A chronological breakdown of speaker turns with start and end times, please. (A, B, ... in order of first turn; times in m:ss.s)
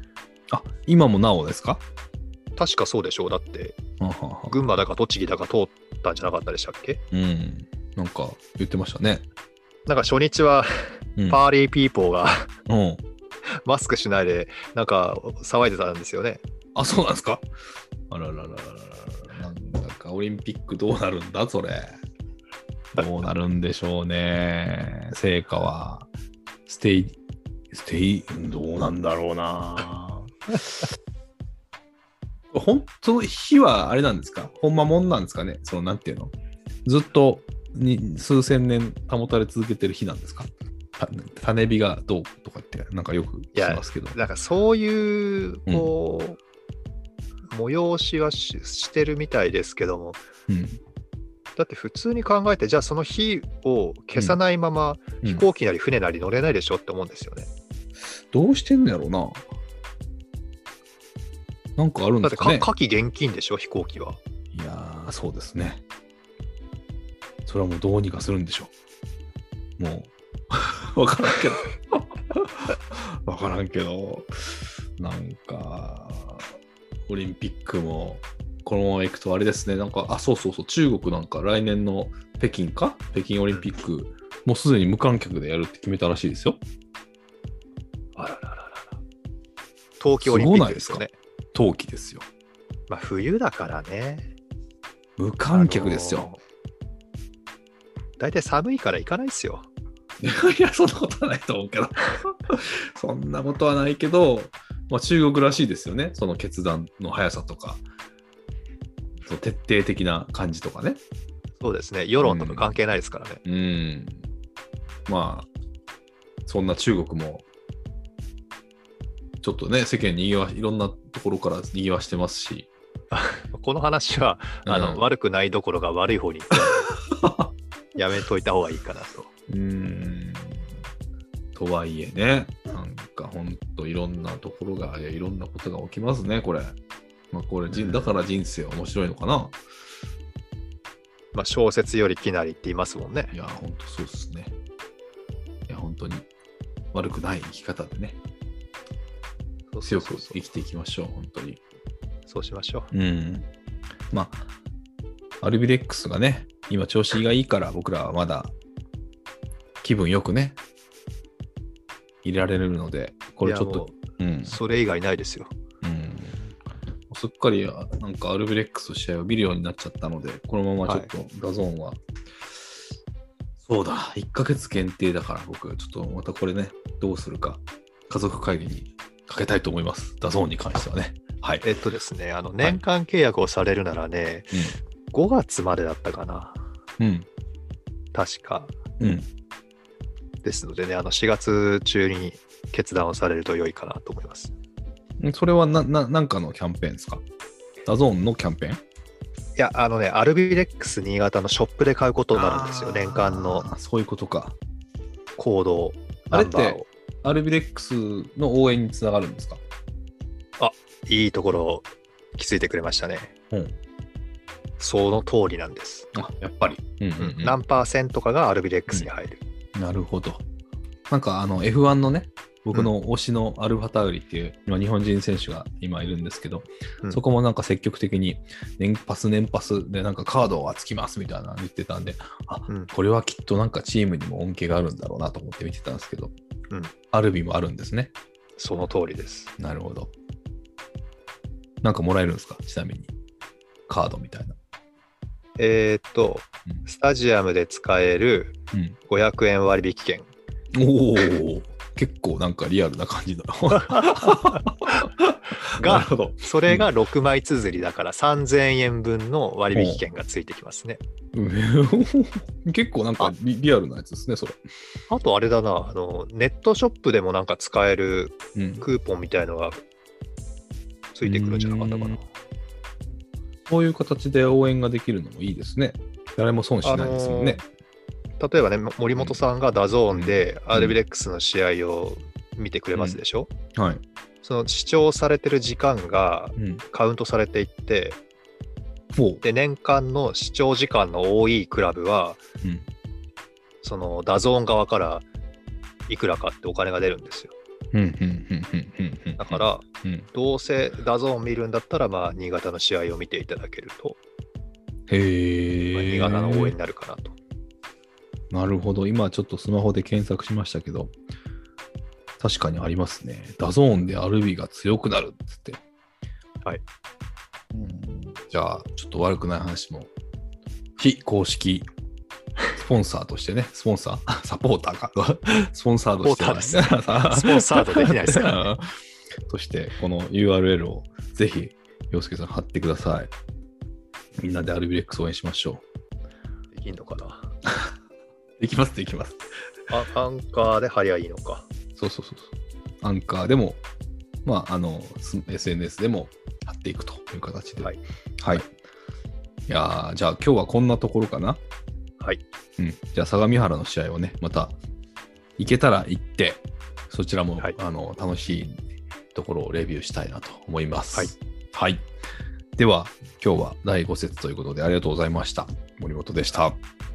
0:00.5-0:01.8 A
0:02.6-0:03.8 B
0:04.0-0:04.6 A
0:04.5-0:07.0 B
0:07.1-0:09.3 A
0:09.8-0:12.5 B
0:12.7-0:13.0 A
0:13.6-0:16.4 B
0:16.7-0:17.4 A
0:18.1-0:22.0 A
0:22.9-0:26.1 A
0:26.6-0:27.2 A
0:27.7-0:30.3 A
0:32.5-0:36.3 A
0:36.8-0:44.2 A
0:43.5-0:46.4 B
0:45.7-0:45.9 A
0:47.5-0:50.2 B
0:50.5-0:50.8 A
0:51.6-0:57.5 B
0:58.3-0:59.4 A
1:01.8-1:02.7 A
1:02.2-1:04.2 B
1:04.5-1:05.8 A
1:07.4-1:08.7 A
1:09.8-1:16.5 A
1:17.1-1:26.6 A
1:28.2-1:29.0 B
1:30.0-1:31.1 B
1:30.2-1:32.2 A
1:32.9-1:34.3 B
1:35.2-1:36.3 A
1:35.5-1:36.4 B
1:38.2-1:39.6 B
1:40.2-1:47.8 A
1:49.2-1:51.0 A
1:51.6-1:53.4 B
1:52.2-1:52.8 A
1:53.4-1:54.2 A
1:55.1-1:55.5 A
1:56.4-1:57.4 A
1:59.4-2:02.7 A
2:03.1-2:06.9 B
2:04.6-2:05.1 A
2:07.1-2:07.5 A
2:08.0-2:09.3 B
2:09.5-2:10.6 A
2:11.5-2:16.8 A
2:17.3-2:19.6 A
2:17.7-2:18.1 B
2:21.3-2:23.3 B
2:23.3-2:24.5 A
2:25.7-2:26.3 A
2:26.9-2:28.2 A
2:29.7-2:30.4 B
2:29.8-2:31.6 A
2:32.3-2:32.9 B
2:32.9-2:33.5 A
2:34.1-2:34.4 A
2:35.4-2:38.5 A
2:39.8-2:40.6 A
2:42.2-2:44.6 A
2:43.4-2:45.5 B
2:45.8-2:46.5 A
2:47.1-2:52.0 A
2:50.8-2:51.1 B
2:53.6-3:01.7 A
3:01.6-3:04.6 B
3:05.1-3:06.6 B
3:07.0-3:07.3 A
3:08.1-3:08.7 B
3:09.0-3:09.3 A
3:10.4-3:14.5 B
3:15.2-3:17.2 A
3:17.8-3:18.8 A
3:19.6-3:23.7 B
3:22.3-3:24.6 A
3:25.4-3:26.9 B
3:26.3-3:29.6 A
3:30.6-3:33.3 B
3:33.5-3:33.8 A
3:34.8-3:36.1 B
3:36.1-3:37.6 A
3:37.2-3:39.4 B
3:39.7-3:40.4 A
3:41.1-3:56.3 A
3:57.1-3:58.1 A
3:58.6-3:59.5 B
3:59.6-4:00.1 A
4:01.8-4:03.1 A
4:03.9-4:04.6 A
4:05.6-4:08.5 B
4:09.1-4:10.3 B
4:10.7-4:16.1 A
4:13.7-4:14.6 B
4:15.8-4:21.0 B
4:19.7-4:20.0 A
4:21.3-4:24.6 A
4:25.1-4:29.8 B
4:28.5-4:28.8 A
4:31.1-4:32.2 B
4:31.2-4:32.2 A
4:33.7-4:37.6 A
4:36.8-4:37.6 B
4:38.4-4:43.5 B
4:39.1-4:39.4 A
4:40.1-4:41.0 A
4:42.9-4:43.2 A
4:43.8-4:44.0 A
4:44.4-4:48.2 B
4:46.6-4:46.8 A
4:49.2-4:49.4 A
4:49.4-4:52.4 B
4:53.8-4:55.2 B
4:56.1-4:57.5 B
4:57.9-5:00.3 A
4:59.4-5:04.2 B
5:05.1-5:06.7 A
5:05.9-5:07.3 B
5:08.5-5:11.1 A
5:12.4-5:15.8 A
5:17.7-5:20.1 A
5:21.0-5:21.9 A
5:22.7-5:28.8 A
5:26.2-5:28.7 B
5:29.5-5:33.3 A
5:34.4-5:35.8 A
5:36.7-5:37.5 B
5:38.6-5:39.4 A
5:39.9-5:41.7 B
5:42.0-5:43.8 A
5:44.4-5:48.6 A
5:49.7-5:51.6 A
5:52.8-5:54.8 A
5:55.6-5:58.8 A
5:59.3-6:02.0 A
6:02.8-6:06.8 A